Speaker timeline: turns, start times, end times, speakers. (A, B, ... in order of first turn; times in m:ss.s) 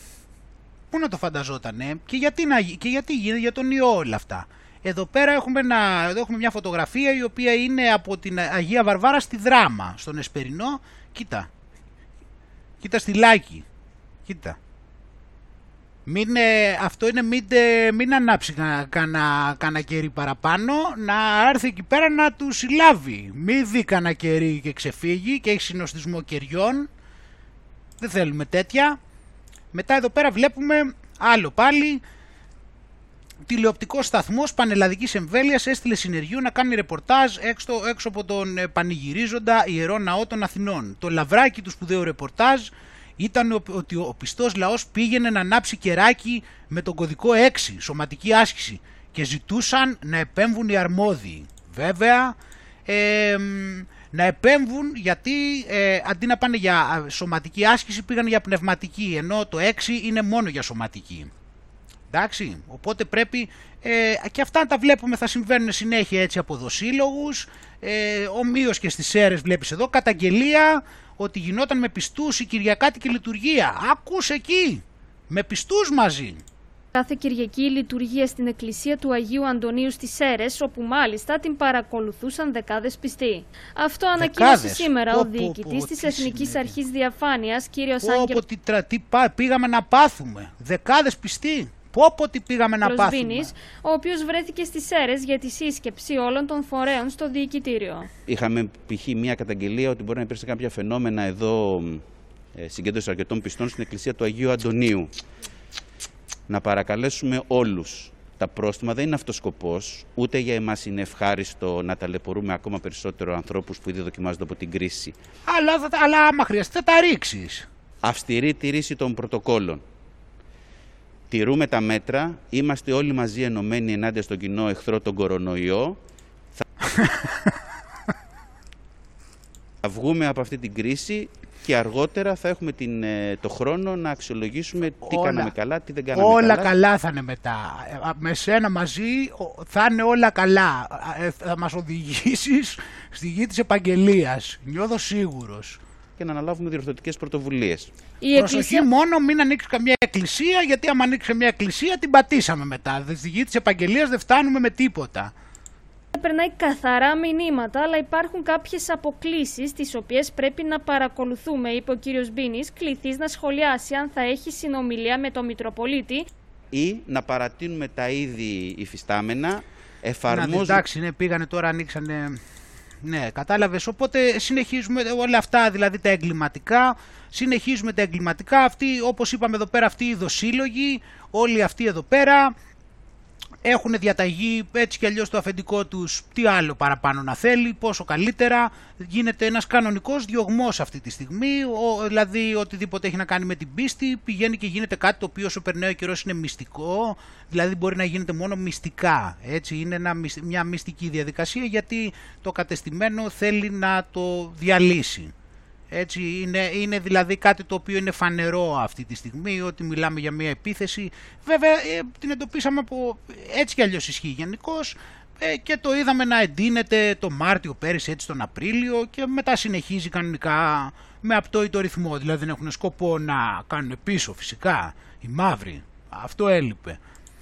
0:00.9-0:11.5 A
0:12.8-0:13.6 A
0:14.3-0:14.6 A
0:16.1-0:26.9 A
0:28.0-0:29.0 A
0:29.7-0:32.0 A
0:33.5-0:52.4 A
0:52.9-1:01.3 A
1:02.1-1:16.4 A
1:16.9-1:28.4 B
1:24.2-1:26.8 A
1:28.0-1:33.5 A
1:32.8-1:38.1 B
1:38.3-1:45.1 C
1:46.5-1:55.2 C
1:55.5-1:57.7 A
1:58.0-1:59.8 C
2:01.3-2:06.0 C
2:06.9-2:07.5 A
2:09.8-2:16.7 C
2:15.0-2:15.5 A
2:16.1-2:25.8 A
2:26.2-2:27.9 C
2:28.2-2:28.9 B
2:28.3-2:35.3 A
2:36.1-2:46.3 B
2:46.7-2:50.8 C
2:50.3-2:52.4 A
2:53.0-3:02.5 A
3:03.6-3:25.3 A
3:25.9-3:47.0 A